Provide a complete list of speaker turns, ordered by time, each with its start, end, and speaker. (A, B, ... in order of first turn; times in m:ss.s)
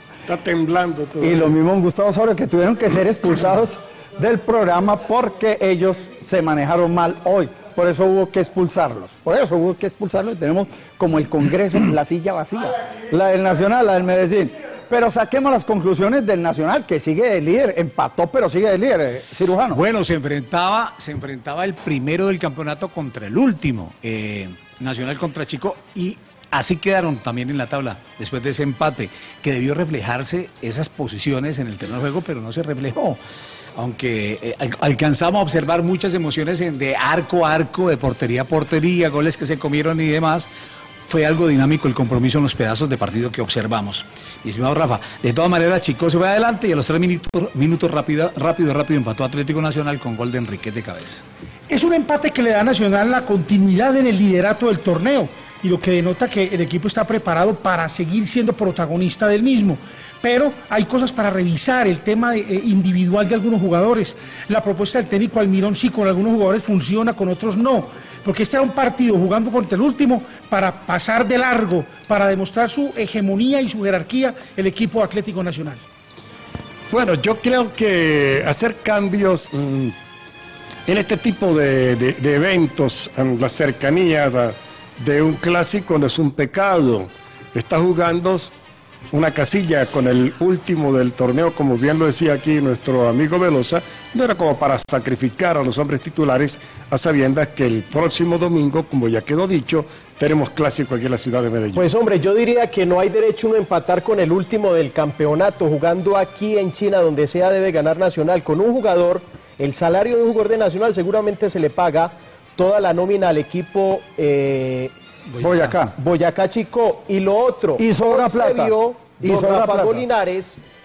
0:00.3-0:01.6 A
0:01.2-0:19.8 B
0:19.7-0:33.2 C
0:33.8-0:40.5 C
0:41.1-0:51.2 C
0:51.7-1:15.8 D
1:16.9-1:19.9 A
1:20.9-1:28.5 A
1:29.1-1:41.9 A
1:41.7-1:54.9 E
1:55.4-1:55.9 B
1:56.0-2:00.6 E
1:57.8-2:00.0 B